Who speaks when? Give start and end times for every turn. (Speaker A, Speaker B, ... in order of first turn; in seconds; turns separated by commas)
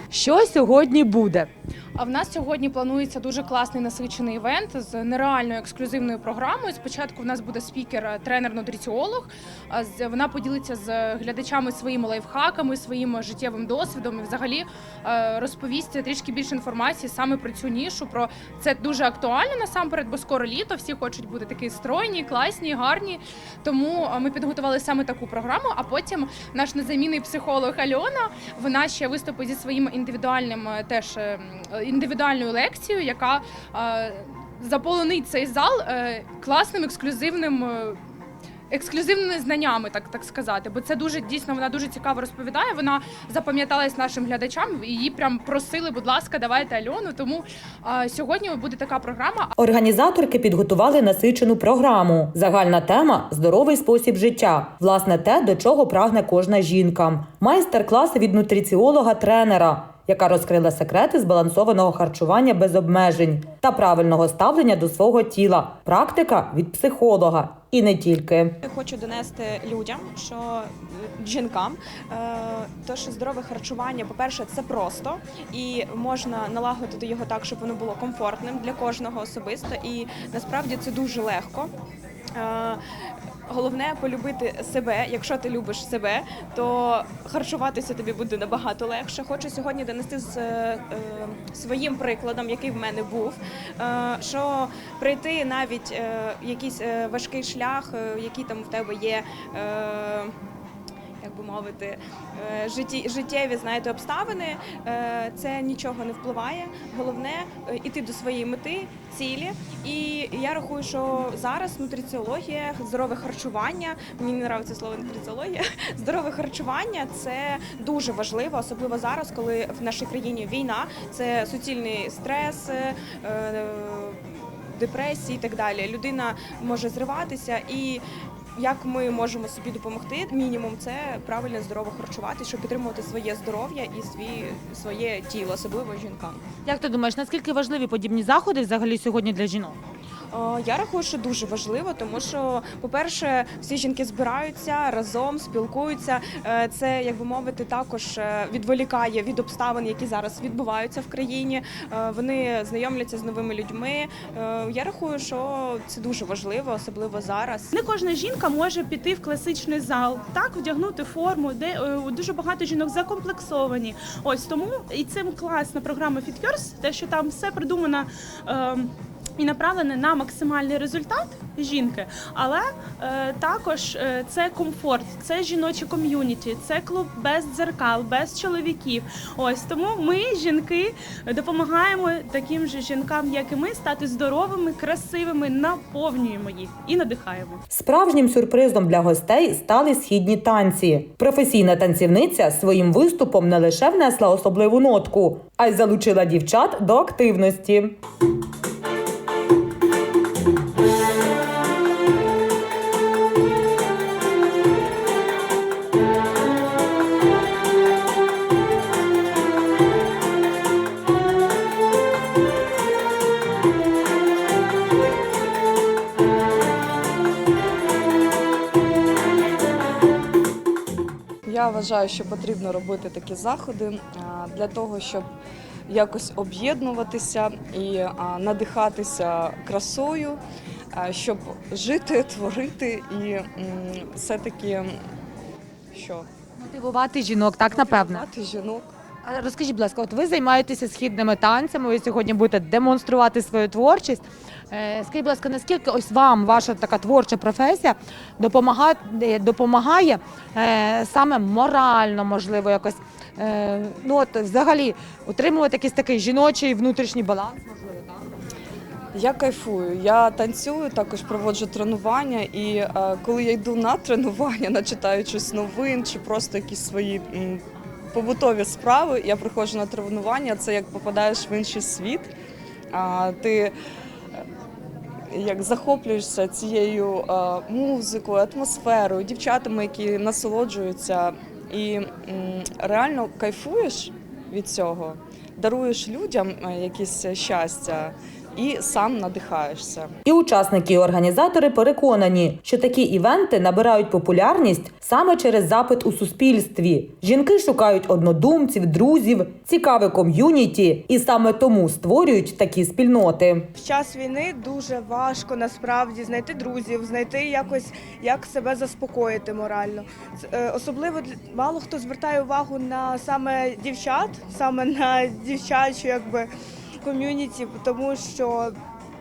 Speaker A: 0.1-1.5, Speaker B: 2.0-38.0, Speaker B: 38.7-49.5, Speaker C: 49.6-68.6, Speaker D: 68.6-81.7, Speaker D: 82.4-82.8, Speaker D: 83.5-100.3, Speaker D: 101.2-128.0, Speaker D: 128.6-136.4, Speaker A: 136.7-139.8, Speaker D: 140.3-157.7, Speaker E: 157.7-187.6, Speaker C: 187.7-198.0, Speaker F: 221.5-225.3, Speaker F: 225.9-230.4, Speaker F: 230.9-234.9, Speaker F: 235.9-236.3, Speaker A: 236.6-238.2, Speaker F: 237.6-238.9, Speaker A: 239.2-258.3, Speaker F: 259.1-267.6, Speaker F: 268.1-272.3, Speaker F: 272.9-273.7, Speaker F: 275.3-290.1, Speaker C: 290.2-303.7, Speaker G: 303.8-316.5, Speaker G: 317.0-318.7